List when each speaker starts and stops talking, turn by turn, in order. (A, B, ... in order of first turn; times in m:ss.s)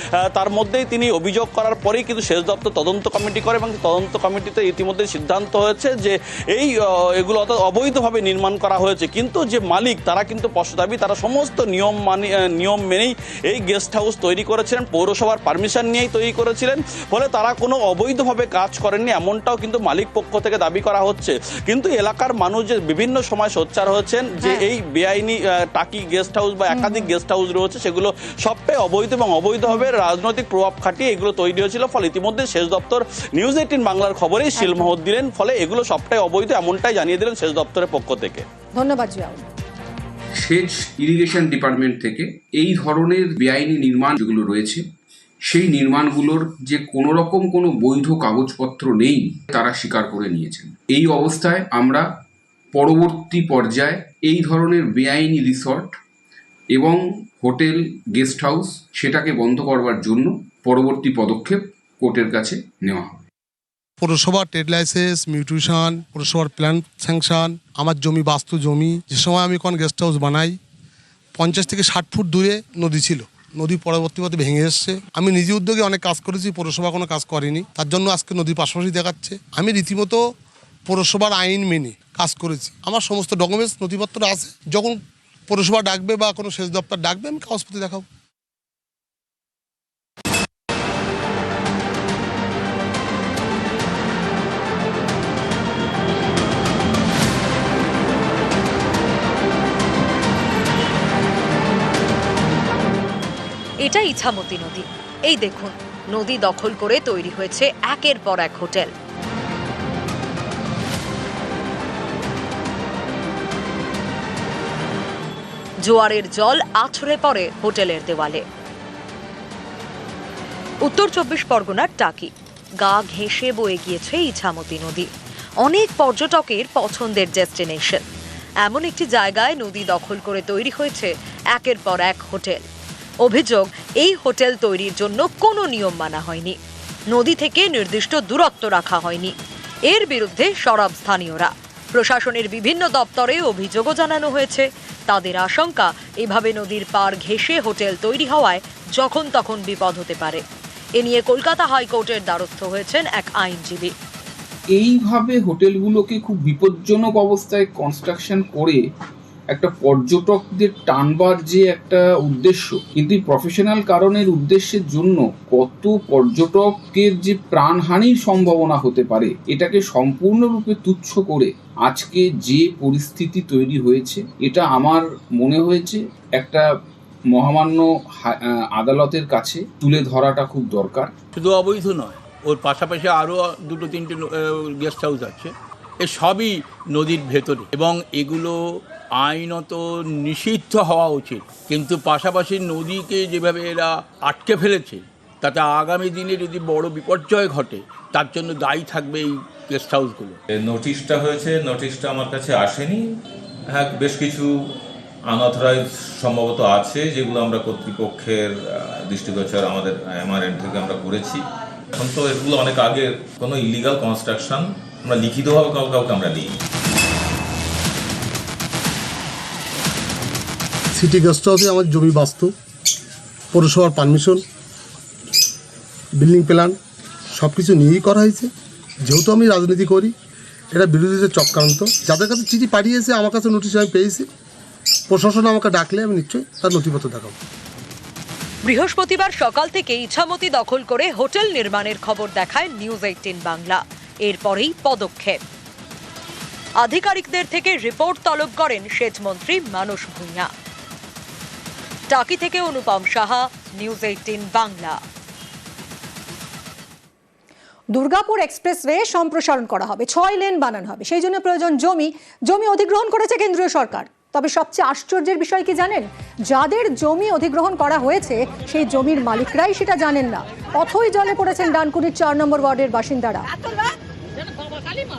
0:00.3-0:38.4 A
0:24.4-0:24.7 B
0:26.7-0:27.1 B
0:34.6-0:34.9 B
0:38.8-0:39.4 B
0:40.5-0:44.8 C
0:45.5-0:52.0 C
0:52.8-0:55.8 C
0:58.2-1:01.5 C
1:02.0-1:03.0 C
1:04.0-1:10.6 D
1:11.4-1:20.2 D
1:20.9-1:25.0 D
1:25.5-1:28.0 D
1:43.8-1:48.9 E
1:55.8-1:58.4 E
2:00.8-2:02.3 E
2:02.8-2:05.1 E
2:05.6-2:08.0 E
2:08.6-2:12.6 E
2:13.2-2:16.6 E
2:17.1-2:19.3 E
2:19.9-2:30.4 E
2:31.0-2:33.9 E
2:34.9-2:38.7 C
2:39.6-2:56.6 C
2:57.4-2:57.8 C
2:58.8-3:01.0 C
3:01.3-3:05.5 F
3:06.0-3:08.6 F
3:09.2-3:20.4 F
3:20.5-3:23.0 G
3:23.7-3:24.6 G
3:25.3-3:36.5 G
3:40.9-3:42.5 D
3:43.5-3:44.4 D
3:46.2-3:46.8 D
3:47.3-3:48.5 D
3:49.0-3:50.1 D
3:50.7-3:54.3 D
3:55.1-3:57.3 D
3:58.6-4:05.4 E
4:06.8-4:10.5 E
4:12.1-4:15.0 E
4:17.9-4:33.4 B